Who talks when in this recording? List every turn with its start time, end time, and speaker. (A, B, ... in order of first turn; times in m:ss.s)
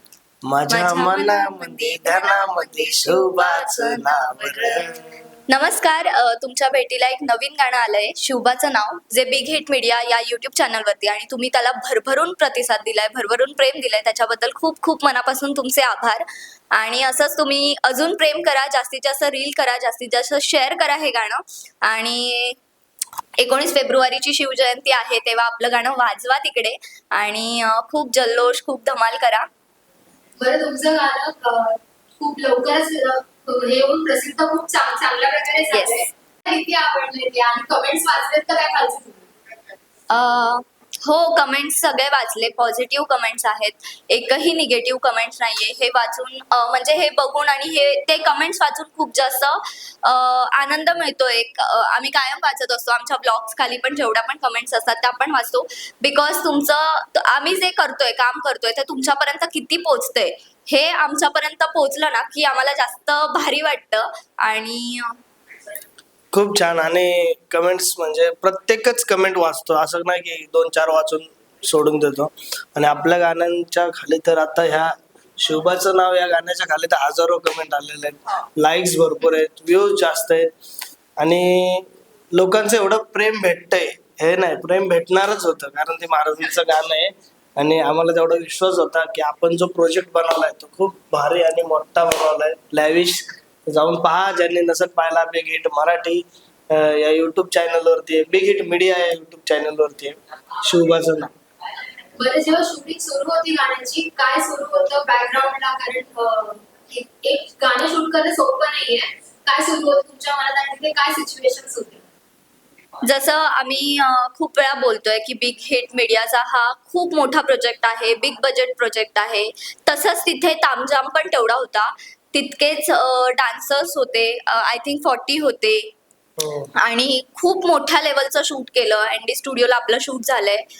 0:00.5-0:05.0 A
0:00.7-0:04.8 B
0:05.5-0:16.2 B
0:16.8-0:22.6 B
0:23.4-0:29.5 B
0:30.4-0:39.2 C
0:35.7-0:36.1 B
0:40.1-1:05.1 B
1:06.3-1:20.5 A
1:21.2-1:41.3 A
1:42.2-1:52.0 C
1:53.1-2:05.9 B
2:06.4-2:06.7 A
2:06.8-2:10.6 B